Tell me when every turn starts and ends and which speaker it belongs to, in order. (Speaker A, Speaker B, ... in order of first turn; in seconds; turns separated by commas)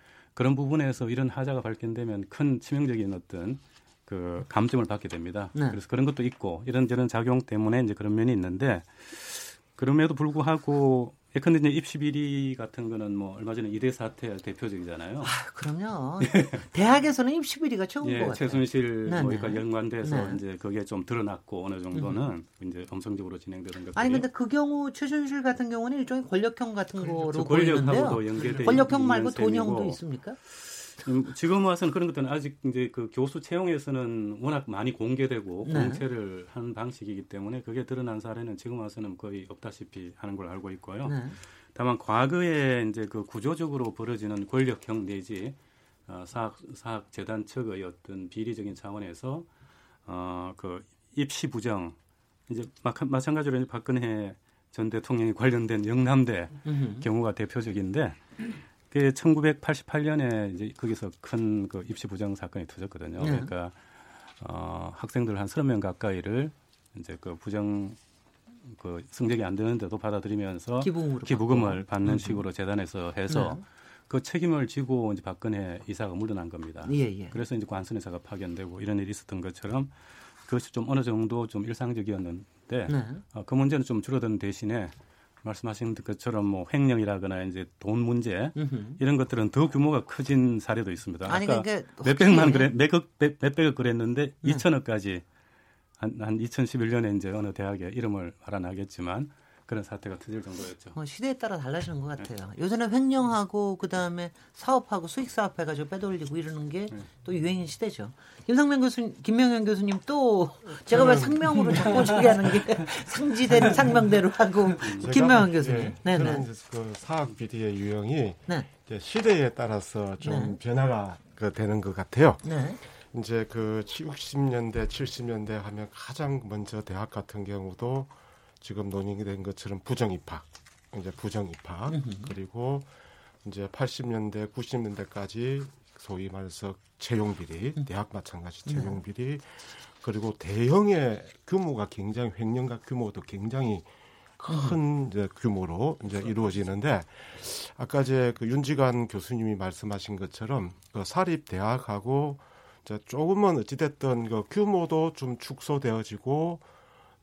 Speaker A: 0.4-15.3, Speaker B: 15.2-20.4, Speaker A: 16.2-16.6, Speaker A: 18.0-24.3, Speaker B: 21.9-22.3, Speaker B: 24.0-30.4, Speaker A: 27.0-49.5, Speaker B: 35.7-36.0, Speaker B: 41.0-41.4, Speaker A: 50.1-52.0, Speaker A: 52.5-58.2, Speaker B: 56.7-57.1, Speaker A: 58.9-63.7, Speaker B: 63.2-63.5, Speaker A: 64.4-68.0, Speaker A: 68.7-79.9, Speaker B: 70.8-72.4, Speaker B: 73.3-73.6, Speaker B: 76.8-77.4, Speaker A: 80.5-95.2, Speaker B: 82.9-83.2, Speaker B: 88.6-89.0, Speaker B: 91.3-92.7, Speaker A: 96.0-101.0, Speaker B: 101.0-116.5, Speaker C: 110.8-112.3, Speaker C: 114.8-132.9, Speaker B: 120.2-120.6, Speaker B: 122.4-122.8, Speaker B: 131.9-132.3, Speaker C: 133.4-143.9, Speaker B: 138.7-139.0, Speaker C: 144.4-156.6, Speaker B: 144.5-144.8